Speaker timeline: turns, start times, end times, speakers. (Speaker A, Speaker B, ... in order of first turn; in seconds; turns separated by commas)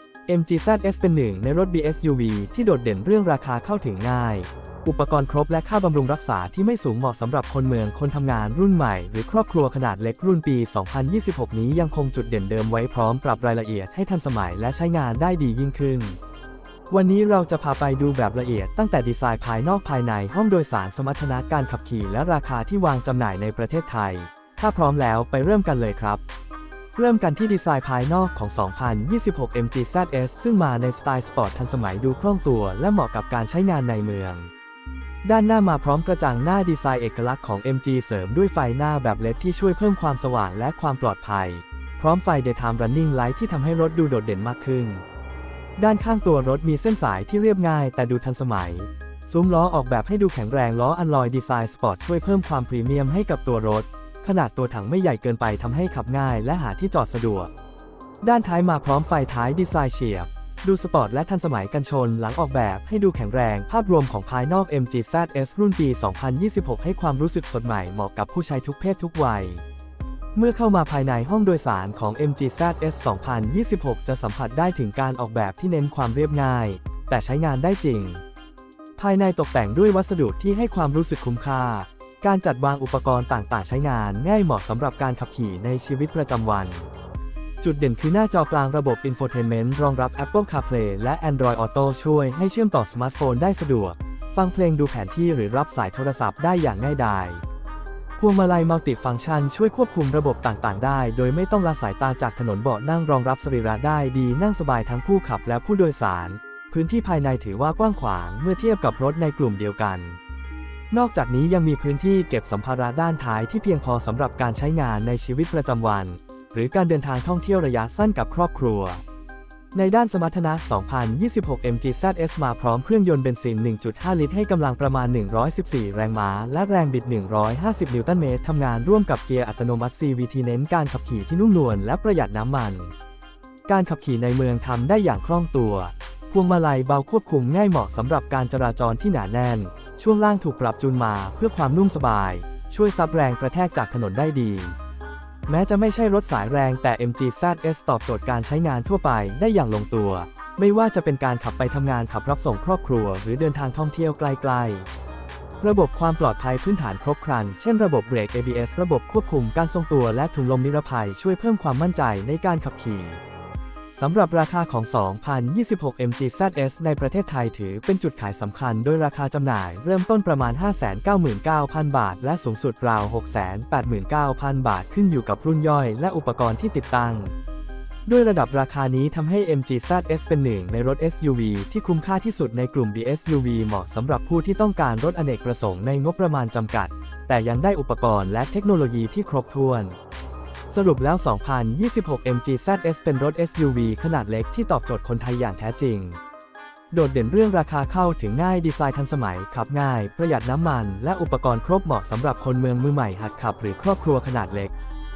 Speaker A: 0.3-16.2, Speaker A: 16.9-26.2, Speaker A: 26.9-34.5, Speaker A: 35.2-45.0, Speaker A: 45.8-57.5, Speaker A: 58.2-69.6, Speaker A: 70.3-78.2, Speaker A: 79.0-86.9, Speaker A: 87.6-97.4, Speaker A: 98.2-110.2, Speaker A: 110.9-119.0, Speaker A: 119.7-132.9, Speaker A: 133.7-144.8, Speaker A: 145.5-154.9, Speaker A: 155.6-163.2, Speaker A: 163.9-177.3, Speaker A: 178.1-190.0, Speaker A: 190.7-196.2, Speaker A: 196.9-204.7